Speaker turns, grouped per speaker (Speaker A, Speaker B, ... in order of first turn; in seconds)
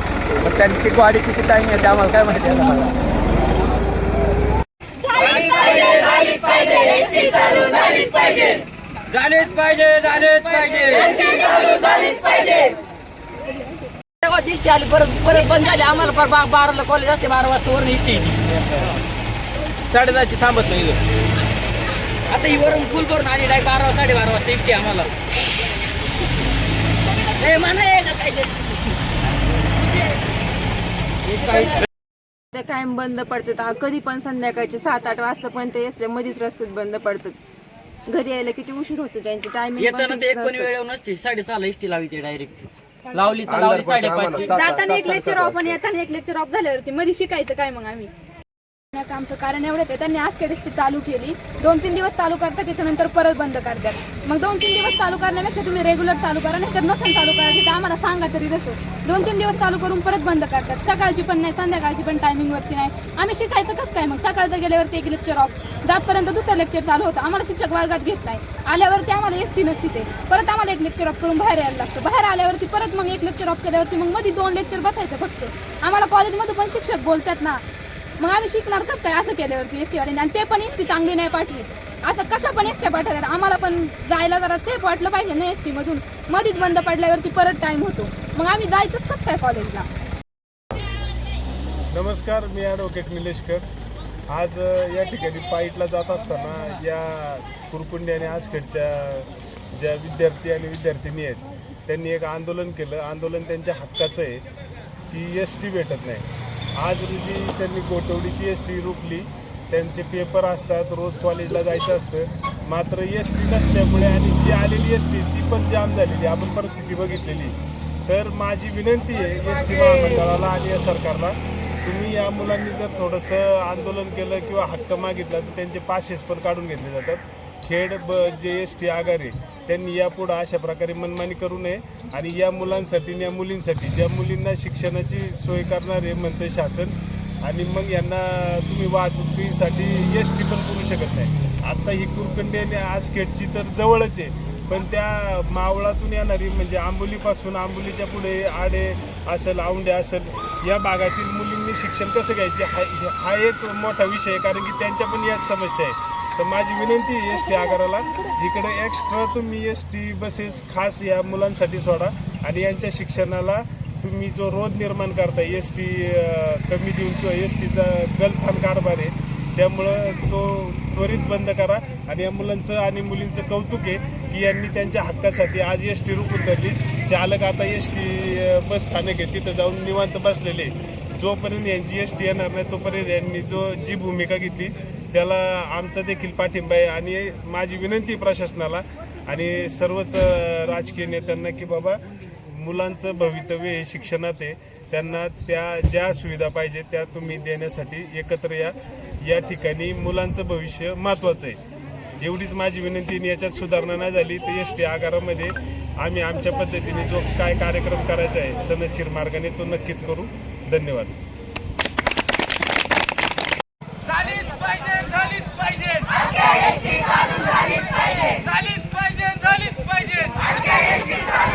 Speaker A: 0.4-2.9, 9.1-11.1, 19.9-21.0, 43.5-45.7
Speaker B: 5.2-6.0, 44.5-48.1, 48.9-77.6, 78.2-89.9
Speaker C: 8.0-8.3, 10.8-11.4, 12.1-12.7, 14.2-18.9, 22.3-25.1, 27.4-28.8, 31.3-31.8, 39.8-44.6
Speaker D: 32.5-37.4, 38.1-40.7
Speaker E: 91.9-93.6, 94.3-104.4, 105.1-117.5, 118.1-201.6, 202.2-211.2, 218.5-220.1